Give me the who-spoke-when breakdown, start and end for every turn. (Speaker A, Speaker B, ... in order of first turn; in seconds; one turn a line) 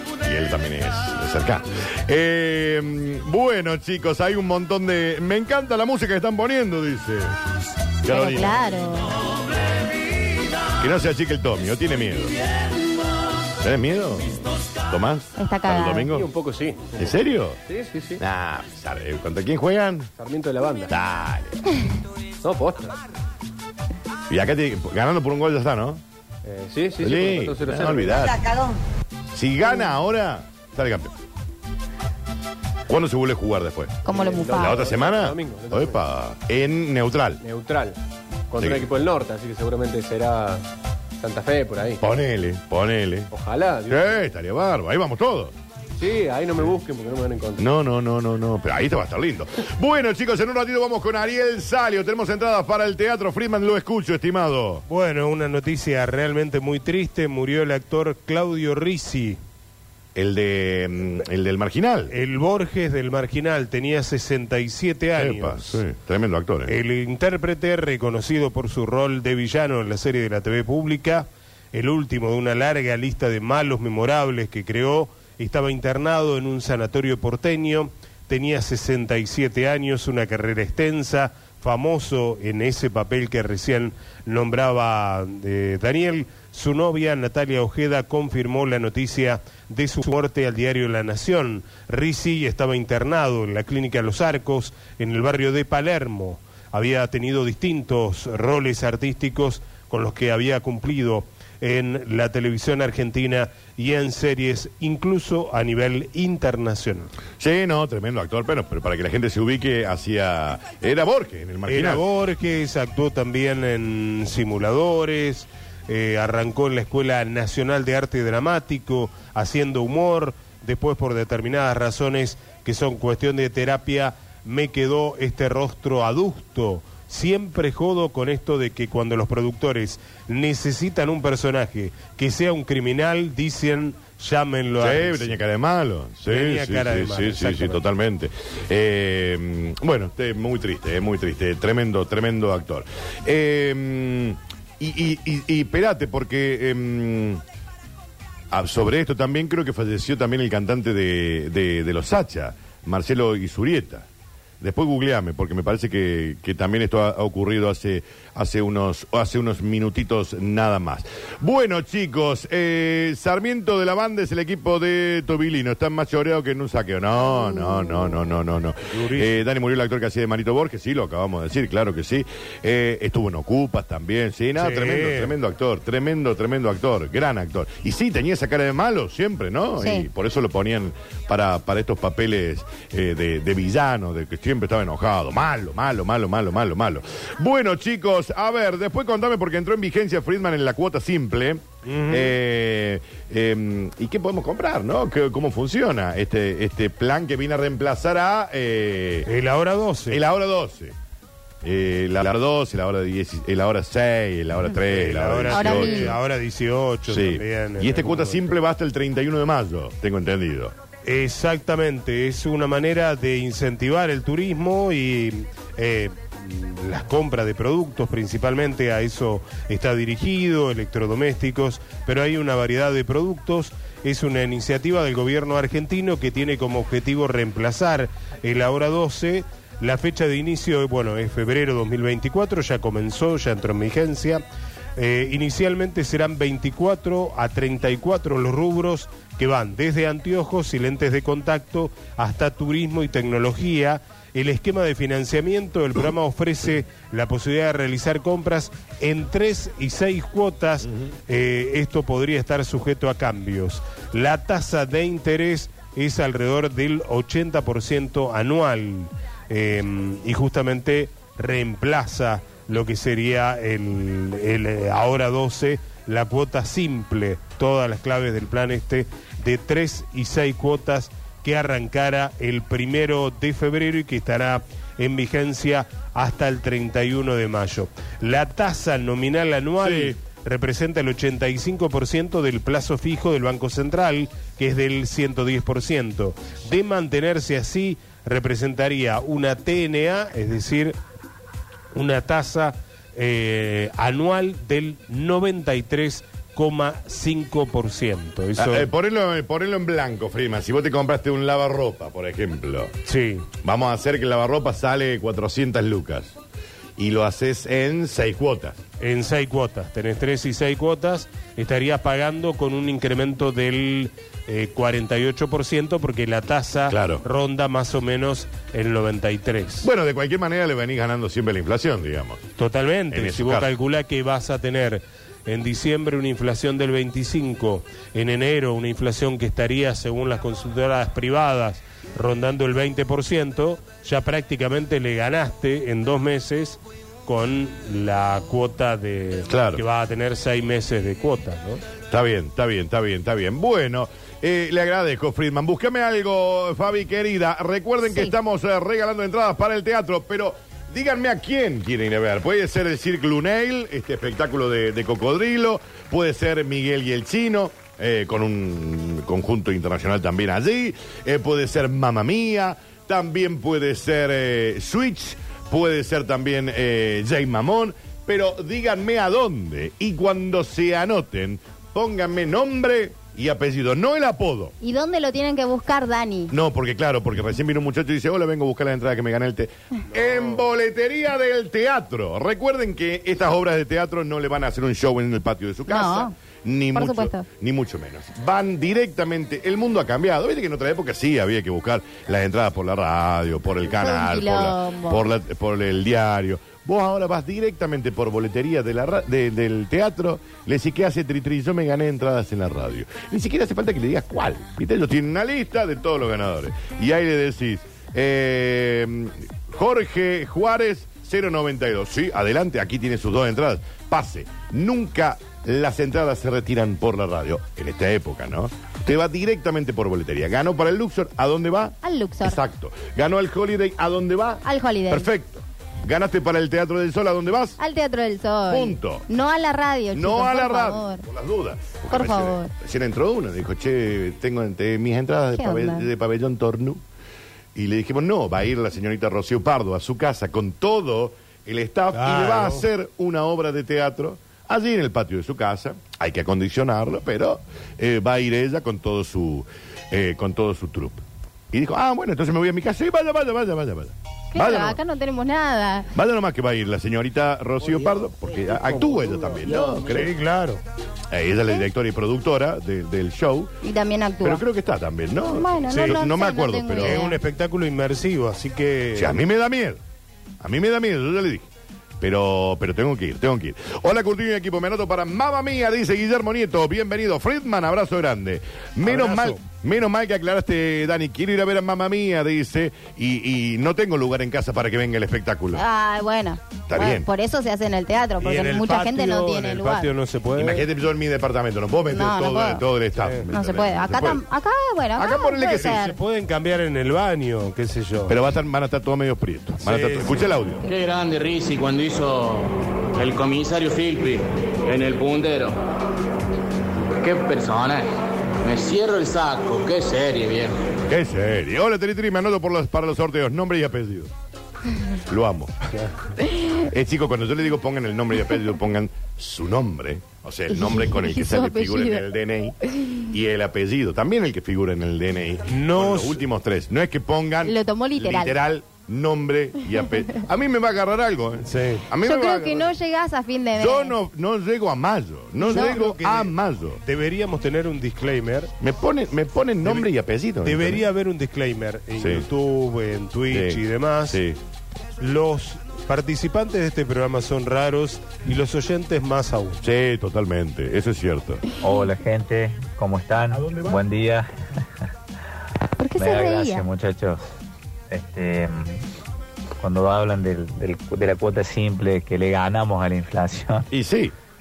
Speaker A: 0.2-7.4
Speaker A: 8.0-8.6
Speaker B: 8.1-9.2
Speaker C: 9.7-10.7
Speaker A: 10.8-12.4
Speaker A: 13.6-16.3
Speaker B: 15.4-16.1
Speaker D: 16.1-18.2
Speaker A: 17.0-17.6
Speaker A: 18.2-20.1
Speaker D: 20.2-20.9
Speaker A: 20.9-21.6
Speaker D: 22.4-23.0
Speaker A: 24.3-26.0
Speaker D: 26.4-28.3
Speaker A: 27.0-28.5
Speaker A: 29.3-31.1
Speaker A: 32.9-34.0
Speaker B: 34.0-34.9
Speaker D: 34.1-36.0
Speaker A: 34.6-37.4
Speaker D: 37.4-38.0
Speaker D: 38.5-40.6
Speaker A: 38.6-38.9
Speaker D: 41.2-42.0
Speaker A: 42.0-43.3
Speaker D: 43.3-44.2
Speaker A: 43.9-45.5
Speaker D: 46.0-47.6
Speaker A: 47.6-54.9
Speaker E: 54.9-59.4
Speaker A: 60.1-62.1
Speaker E: 62.1-65.8
Speaker A: 65.2-66.8
Speaker E: 66.7-107.1
Speaker A: 107.4-112.0
Speaker E: 111.7-135.4
Speaker A: 134.8-147.4
Speaker E: 136.3-137.8
Speaker A: 148.5-154.1
Speaker A: 154.6-199.3
Speaker B: 167.5-168.0
Speaker E: 168.9-169.4
Speaker E: 174.6-175.4
Speaker B: 179.8-180.1
Speaker E: 191.8-192.3
Speaker E: 199.3-200.2
Speaker A: 200.1-200.9
Speaker A: 201.6-206.2
Speaker E: 204.9-208.5
Speaker B: 205.5-206.1
Speaker A: 207.1-210.8
Speaker E: 211.1-234.4
Speaker E: 235.0-291.0
Speaker A: 279.8-280.2
Speaker E: 291.9-298.9
Speaker A: 298.6-302.9
Speaker E: 303.1-303.5
Speaker A: 303.6-306.4
Speaker A: 307.0-308.8
Speaker E: 309.0-319.9
Speaker A: 316.9-317.2
Speaker A: 319.8-322.4
Speaker E: 322.6-341.8
Speaker A: 323.1-323.7
Speaker A: 339.5-339.8
Speaker A: 342.1-374.8
Speaker B: 374.8-376.5
Speaker A: 376.5-427.8
Speaker E: 380.2-380.6
Speaker B: 385.9-386.3
Speaker B: 386.9-387.5
Speaker B: 393.9-395.2
Speaker B: 422.0-422.6
Speaker B: 424.6-425.3
Speaker B: 427.8-431.2
Speaker A: 428.7-429.3
Speaker A: 430.1-437.0
Speaker B: 432.1-432.7
Speaker B: 435.6-436.1
Speaker A: 437.8-455.0
Speaker E: 442.1-442.9
Speaker B: 454.5-456.1
Speaker A: 456.1-460.4
Speaker E: 460.0-460.8
Speaker A: 461.3-463.7
Speaker B: 463.8-464.6
Speaker A: 464.4-467.2
Speaker B: 465.5-467.4
Speaker E: 465.9-466.2
Speaker E: 467.0-469.4
Speaker A: 469.1-470.0
Speaker A: 470.6-471.7
Speaker A: 472.2-485.8
Speaker E: 479.0-479.6
Speaker B: 485.7-490.1
Speaker A: 486.9-487.3
Speaker E: 488.4-490.9
Speaker A: 490.6-494.4
Speaker B: 492.1-492.8
Speaker E: 493.2-493.5
Speaker B: 493.5-496.2
Speaker A: 495.2-496.1
Speaker E: 495.7-498.4
Speaker A: 498.3-500.9
Speaker E: 499.8-500.5
Speaker C: 500.9-505.8
Speaker C: 507.2-508.1
Speaker C: 508.6-510.8
Speaker A: 511.1-514.3
Speaker A: 515.3-515.9
Speaker B: 516.5-516.8
Speaker A: 516.8-532.9
Speaker B: 520.7-522.2
Speaker B: 523.0-523.2
Speaker E: 525.7-526.4
Speaker B: 527.6-528.6
Speaker E: 531.6-532.1
Speaker B: 532.2-534.1
Speaker A: 533.8-537.0
Speaker E: 535.6-538.7
Speaker B: 535.7-536.0
Speaker A: 538.8-541.1
Speaker E: 539.8-540.1
Speaker E: 540.6-544.4
Speaker A: 542.2-542.5
Speaker A: 543.5-544.6
Speaker E: 545.2-549.8
Speaker A: 549.8-551.6
Speaker F: 551.8-554.9
Speaker B: 556.0-556.9
Speaker F: 556.2-557.5
Speaker F: 558.1-559.0
Speaker F: 559.8-563.9
Speaker A: 563.9-564.4